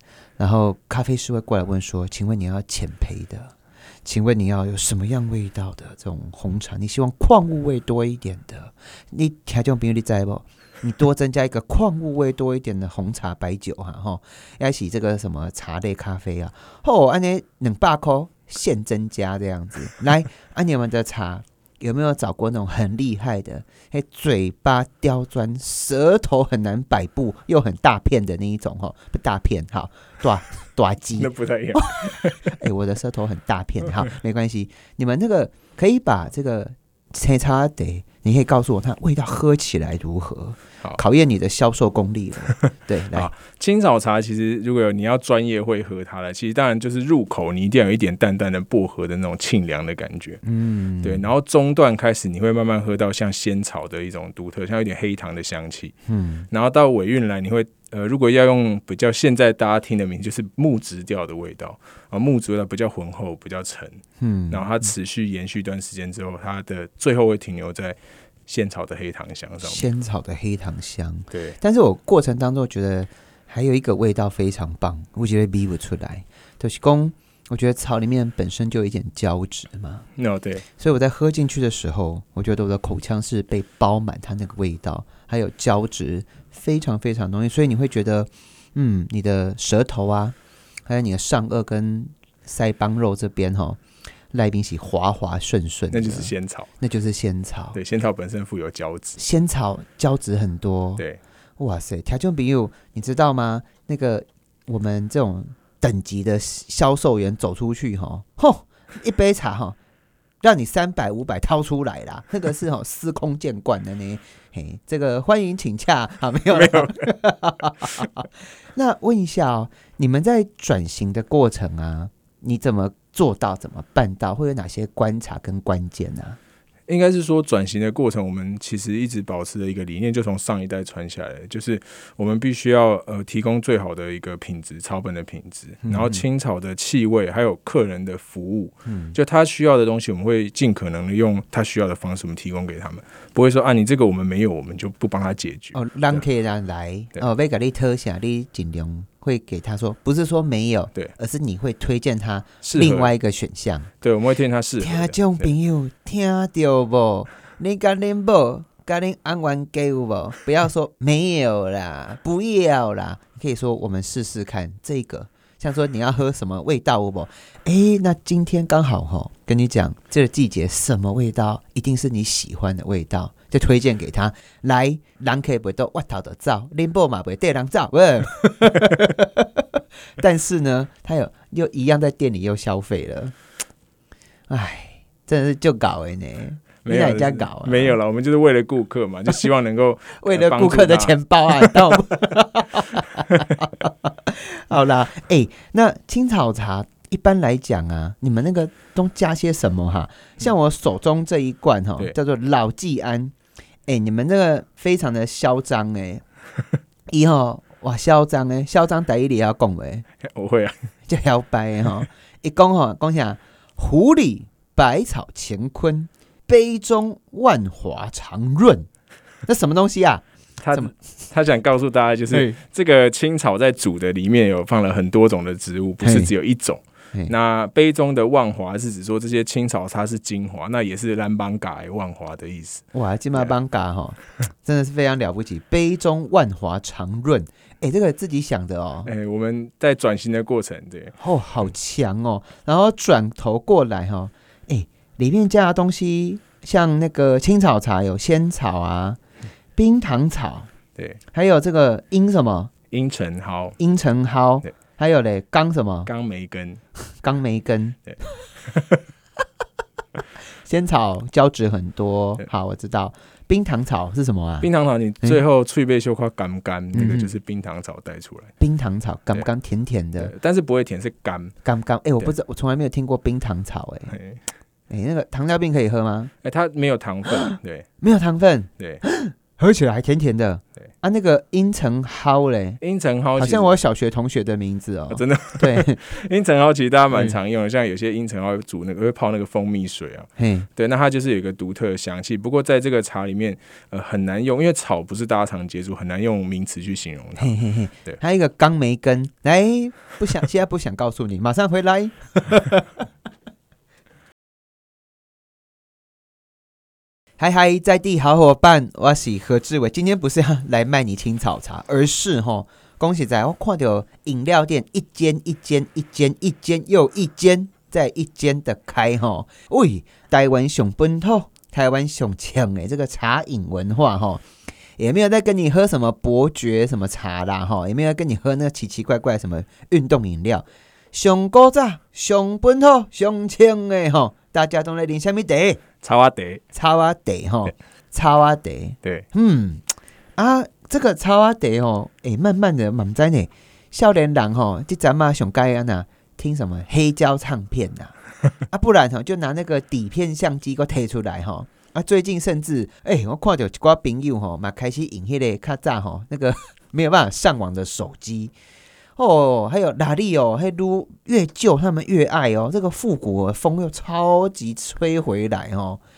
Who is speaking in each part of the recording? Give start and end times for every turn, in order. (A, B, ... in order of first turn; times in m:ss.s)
0:00.4-0:03.5 A
0:04.0-0:43.3 A
0:31.2-0:32.6 B
0:42.6-0:50.4 B
0:50.4-0:51.3 A
0:51.0-0:55.9 B
0:56.1-0:56.5 A
0:56.5-1:09.9 B
1:04.2-1:04.9 A
1:09.6-1:20.1 A
1:20.2-1:20.6 B
1:20.8-1:30.4 A
1:30.9-1:33.8 A
1:34.3-1:37.8 A
1:35.9-1:36.7 B
1:37.7-1:39.2 B
1:39.2-1:41.0 A
1:41.6-1:49.8 A
1:50.4-2:06.4 A
1:56.5-1:56.9 B
2:06.9-2:26.2 B
2:15.8-2:16.2 A
2:18.9-2:19.2 A
2:25.7-2:33.9 A
2:32.6-2:33.1 B
2:34.0-2:35.5 B
2:34.8-2:59.7 A
3:00.2-3:03.3 A
3:04.5-3:08.0 A
3:06.8-3:12.0 B
3:10.2-3:23.3 A
3:23.9-3:26.2 A
3:27.1-3:30.0 A
3:30.2-3:30.8 B
3:31.1-3:38.9 A
3:39.5-3:40.9 A
3:40.6-3:52.8 B
3:42.3-3:42.6 A
3:46.0-3:46.3 A
3:52.9-3:59.1 A
3:59.1-4:01.2 B
4:01.2-4:09.2 A
4:09.8-4:10.7 A
4:11.3-4:12.7 A
4:12.9-4:13.8 B
4:13.8-4:16.1 A
4:16.1-4:16.8 B
4:17.1-4:18.0 A
4:18.7-4:19.0 B
4:20.7-4:24.7 A
4:24.6-4:28.5 B
4:26.9-4:27.3 A
4:28.6-4:30.3 A
4:30.2-4:31.5 B
4:31.6-4:34.2 A
4:34.1-4:34.4 B
4:34.9-4:36.3 A
4:36.4-4:37.9 B
4:37.3-4:42.8 A
4:42.8-4:43.8 B
4:43.4-4:46.1 A
4:45.1-4:57.6 B
4:47.1-4:47.4 A
4:50.4-4:50.7 A
4:57.4-5:03.0 A
5:07.4-5:24.4 A
5:25.0-5:35.8 A
5:36.0-5:36.6 B
5:36.7-5:39.8 A
5:40.4-5:48.1 A
5:48.7-5:58.5 A
5:59.2-6:06.0 A